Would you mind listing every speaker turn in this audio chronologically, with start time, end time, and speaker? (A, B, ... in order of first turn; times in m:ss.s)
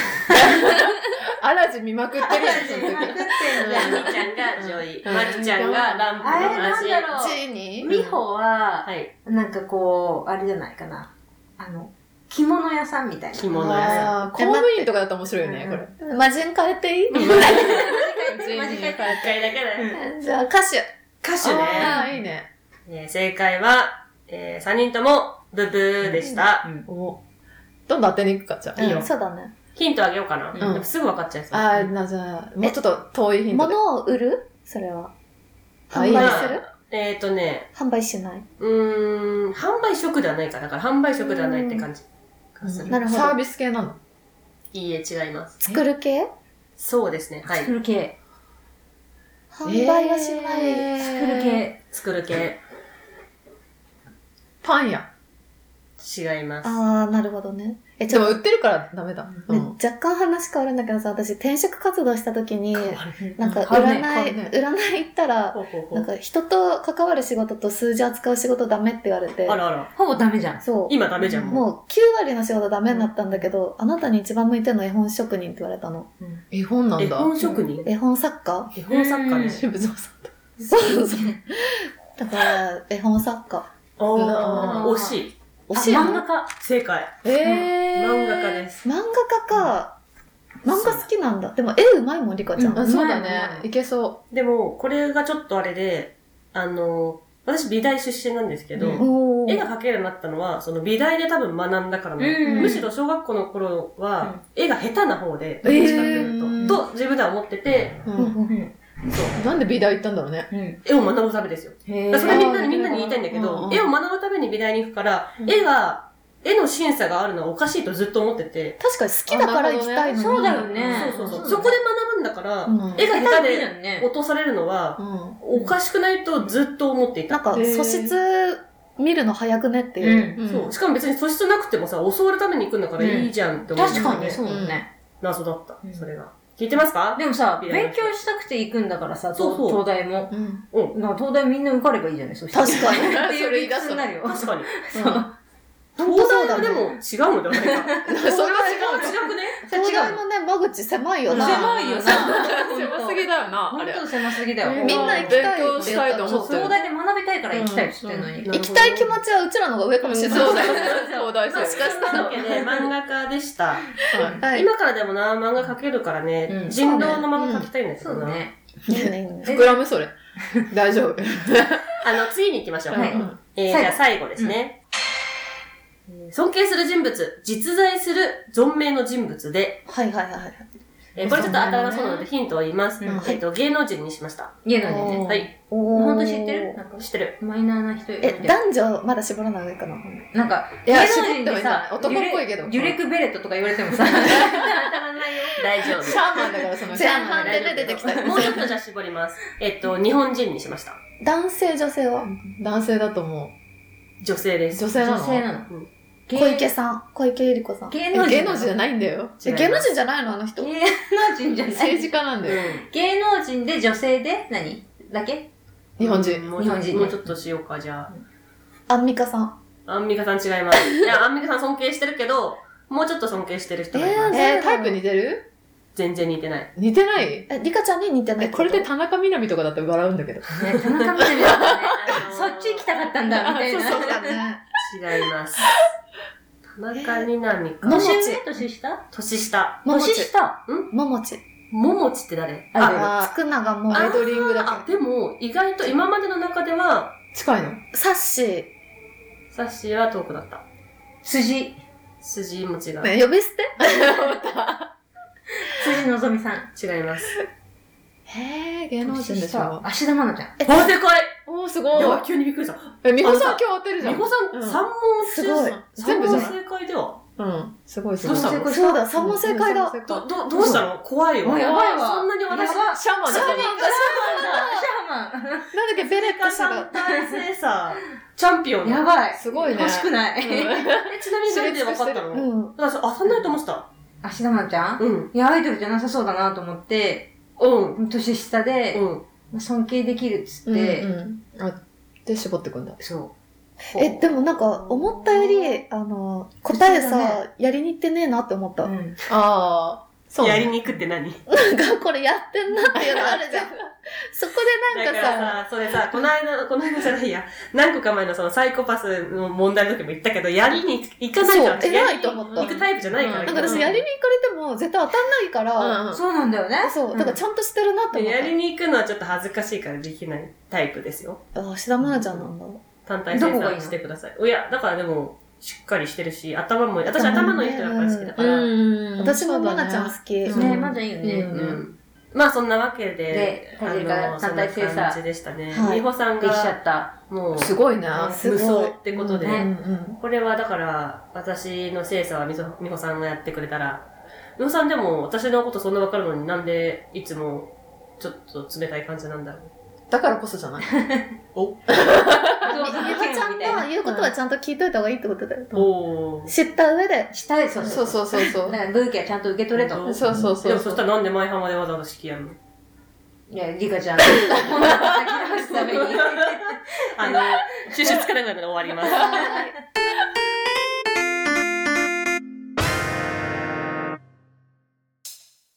0:00.3-0:06.6 A
0:02.2-0:04.2 B
0:02.3-0:07.1 C
0:06.2-0:14.1 B
0:07.1-0:08.0 D
0:08.8-0:09.1 C
0:13.3-0:14.2 C
0:13.6-0:14.9 D
0:13.8-0:15.9 A
0:15.4-0:17.9 D
0:17.1-0:17.8 C
0:17.2-0:20.0 B
0:18.3-0:19.4 A
0:18.7-0:20.0 C
0:19.9-0:20.9 D
0:21.2-0:22.0 C
0:21.4-0:22.5 A
0:21.8-0:22.2 D
0:21.8-0:22.1 B
0:22.9-0:26.6 C
0:26.8-0:27.2 A
0:27.9-0:29.0 A
0:28.8-0:29.5 D
0:28.8-0:29.1 C
0:29.7-0:31.9 C
0:30.5-0:30.8 B
0:30.6-0:30.9 A
0:31.5-0:33.8 A
0:33.5-0:35.1 D
0:35.9-0:36.6 D
0:35.9-0:36.5 A
0:36.1-0:37.7 C
0:37.7-0:38.4 D
0:38.6-0:43.0 C
0:42.6-0:44.0 A
0:42.9-0:43.4 D
0:44.7-0:45.6 C
0:45.6-0:46.3 D
0:46.8-0:47.7 C
0:47.5-0:48.1 B
0:49.5-0:51.0 D
0:49.6-0:51.6 A
0:51.0-0:51.8 B
0:51.9-0:52.6 C
0:54.6-0:55.1 A
0:56.0-0:56.8 C
0:56.6-0:58.4 D
0:58.1-0:59.7 A
0:59.5-1:09.6 D
1:02.7-1:03.2 C
1:03.2-1:04.1 B
1:03.4-1:04.5 A
1:05.5-1:06.1 C
1:09.5-1:09.9 C
1:09.9-1:10.6 B
1:10.6-1:16.1 D
1:10.9-1:11.6 C
1:16.5-1:17.3 A
1:17.0-1:17.9 C
1:17.8-1:18.7 D
1:18.7-1:19.6 C
1:18.9-1:19.6 B
1:19.5-1:20.3 A
1:20.7-1:24.5 D
1:24.0-1:25.3 C
1:24.2-1:24.9 A
1:24.4-1:25.2 B
1:25.7-1:26.2 D
1:25.7-1:26.5 B
1:25.9-1:27.2 C
1:27.2-1:28.6 A
1:27.4-1:27.7 B
1:27.9-1:28.8 C
1:28.8-1:30.0 D
1:30.6-1:32.8 D
1:30.7-1:31.0 C
1:32.6-1:33.7 B
1:32.8-1:34.2 A
1:34.3-1:48.0 C
1:38.8-1:39.7 D
1:42.2-1:42.8 B
1:42.4-1:42.8 A
1:45.6-1:46.8 A
1:45.8-1:46.0 B
1:48.0-1:48.4 A
1:48.1-1:48.6 D
1:48.5-1:48.7 B
1:49.1-1:49.4 C
1:49.3-1:50.5 A
1:50.5-1:50.8 B
1:50.8-1:58.8 C
1:51.8-1:52.9 B
1:52.2-1:53.9 A
1:58.8-2:00.7 D
1:59.3-2:01.4 A
2:00.1-2:01.7 B
2:00.9-2:07.4 C
2:02.7-2:03.0 A
2:03.0-2:04.1 B
2:05.0-2:05.4 A
2:07.3-2:10.4 D
2:07.5-2:08.2 A
2:10.0-2:10.4 B
2:10.4-2:10.7 A
2:10.4-2:14.4 C
2:13.0-2:14.9 B
2:13.9-2:14.8 A
2:15.2-2:18.2 C
2:17.1-2:20.3 B
2:19.4-2:19.8 C
2:20.3-2:20.6 A
2:20.9-2:25.3 B
2:22.5-2:23.3 D
2:22.8-2:24.1 A
2:24.2-2:24.7 C
2:24.9-2:25.2 A
2:26.0-2:26.9 D
2:26.0-2:29.6 C
2:27.6-2:30.2 B
2:28.0-2:29.2 A
2:28.3-2:29.0 D
2:29.6-2:31.7 D
2:31.3-2:36.8 A
2:31.3-2:38.8 B
2:34.7-2:36.7 D
2:37.5-2:38.5 A
2:38.5-2:41.0 D
2:40.0-2:42.9 A
2:40.3-2:41.4 B
2:40.4-2:48.4 C
2:41.6-2:42.3 D
2:44.1-2:44.4 A
2:44.4-2:44.7 D
2:46.5-2:47.2 B
2:46.8-2:47.7 D
2:48.0-2:48.6 B
2:48.9-2:49.6 D
2:48.9-2:50.1 A
2:49.4-2:49.8 B
2:50.4-2:50.6 B
2:50.6-2:52.0 A
2:52.0-2:54.8 C
2:52.9-2:54.6 B
2:52.9-2:53.4 A
2:56.1-2:59.8 C
2:59.9-3:00.6 D
3:01.2-3:04.6 C
3:01.2-3:02.3 D
3:01.2-3:01.6 A
3:03.0-3:03.3 B
3:04.6-3:05.3 B
3:04.8-3:06.8 D
3:05.0-3:05.4 A
3:05.2-3:05.5 C
3:05.9-3:08.6 B
3:07.0-3:07.4 C
3:08.2-3:10.2 D
3:10.3-3:16.0 B
3:10.8-3:13.0 A
3:14.2-3:14.7 A
3:15.5-3:16.4 C
3:15.8-3:18.6 A
3:16.9-3:18.5 D
3:16.9-3:18.6 B
3:18.1-3:21.0 C
3:21.2-3:22.3 D
3:22.2-3:23.5 A
3:24.2-3:24.9 C
3:24.7-3:25.4 A
3:25.0-3:25.7 B
3:26.3-3:26.7 B
3:26.3-3:28.0 D
3:27.9-3:28.8 B
3:28.1-3:29.4 A
3:29.4-3:29.9 C
3:29.4-3:30.7 D
3:30.6-3:32.1 B
3:31.7-3:32.6 A
3:32.4-3:32.9 C
3:32.9-3:35.5 B
3:36.0-3:36.5 A
3:36.0-3:38.1 C
3:36.6-3:37.3 B
3:38.9-3:39.6 D
3:39.8-3:44.4 C
3:43.9-3:45.0 D
3:44.3-3:45.4 A
3:45.9-3:46.7 C
3:46.8-3:47.5 A
3:47.5-3:48.9 D
3:48.4-3:52.0 A
3:50.6-3:54.4 B
3:51.6-3:52.9 C
3:53.3-3:54.2 A
3:53.7-3:54.6 D
3:54.8-3:55.9 C
3:56.7-3:58.4 C
3:56.9-3:57.3 D
3:57.8-3:59.0 B
3:57.8-3:58.4 D
3:59.1-3:59.8 C
3:59.8-4:00.3 D
3:59.9-4:00.6 B
4:00.9-4:01.4 D
4:01.7-4:03.2 C
4:02.7-4:03.2 B
4:02.9-4:04.9 D
4:03.9-4:04.5 A
4:03.9-4:07.2 C
4:07.3-4:07.8 A
4:07.9-4:08.7 D
4:09.5-4:10.6 C
4:11.2-4:11.8 B
4:12.2-4:13.1 C
4:13.0-4:14.2 D
4:13.8-4:14.9 A
4:15.6-4:16.7 B
4:16.7-4:17.4 C
4:18.3-4:19.8 A
4:19.0-4:19.7 D
4:19.2-4:20.6 B
4:20.6-4:20.9 D
4:20.6-4:21.4 C
4:21.4-4:22.3 A
4:21.9-4:27.2 C
4:23.0-4:24.8 A
4:25.2-4:26.4 D
4:25.6-4:26.5 A
4:27.4-4:30.8 A
4:28.2-4:29.4 B
4:28.2-4:28.7 C
4:28.7-4:30.1 D
4:30.0-4:33.0 C
4:31.4-4:35.7 B
4:31.6-4:31.9 A
4:32.6-4:34.4 A
4:33.2-4:34.9 D
4:35.7-4:36.9 D
4:36.0-4:39.1 C
4:36.9-4:37.4 B
4:38.8-4:40.9 B
4:39.4-4:42.3 A
4:40.9-4:43.9 C
4:42.3-4:42.8 D
4:44.2-4:47.3 B
4:45.0-4:45.3 C
4:47.6-4:48.0 C
4:48.0-4:51.1 B
4:48.9-4:49.2 C
4:50.7-4:53.0 A
4:53.0-4:53.3 B
4:53.9-4:54.5 B
4:54.0-4:58.9 D
4:56.7-4:57.4 B
4:58.8-4:59.2 B
4:59.3-5:00.7 A
5:00.4-5:01.4 C
5:01.5-5:03.8 D
5:02.9-5:03.7 A
5:04.3-5:05.6 D
5:04.9-5:14.0 C
5:11.4-5:12.8 D
5:12.6-5:14.0 A
5:13.4-5:16.0 D
5:15.8-5:16.2 A
5:16.1-5:17.4 B
5:16.8-5:18.5 D
5:18.1-5:21.4 C
5:21.5-5:22.8 D
5:22.1-5:22.5 C
5:23.0-5:28.7 C
5:23.3-5:23.9 B
5:27.2-5:28.4 D
5:28.4-5:31.6 A
5:29.2-5:30.8 D
5:30.5-5:31.8 B
5:31.5-5:37.8 C
5:33.3-5:35.2 B
5:35.7-5:36.0 D
5:36.4-5:37.1 B
5:37.5-5:38.4 A
5:38.1-5:38.4 B
5:38.4-5:39.0 D
5:38.4-5:44.0 C
5:39.1-5:40.2 A
5:39.4-5:39.7 B
5:44.6-5:49.7 C
5:50.1-5:51.0 A
5:50.9-5:51.3 B
5:51.5-5:52.0 C
5:51.9-5:54.3 A
5:52.6-5:53.9 B
5:52.6-5:55.9 D
5:55.7-5:56.5 C
5:56.4-5:57.3 D
5:57.3-6:01.0 B
5:57.8-5:58.8 A
5:59.7-6:02.6 C
6:00.0-6:01.0 A
6:03.5-6:08.1 B
6:05.6-6:09.6 C
6:09.1-6:09.5 B
6:09.2-6:09.7 D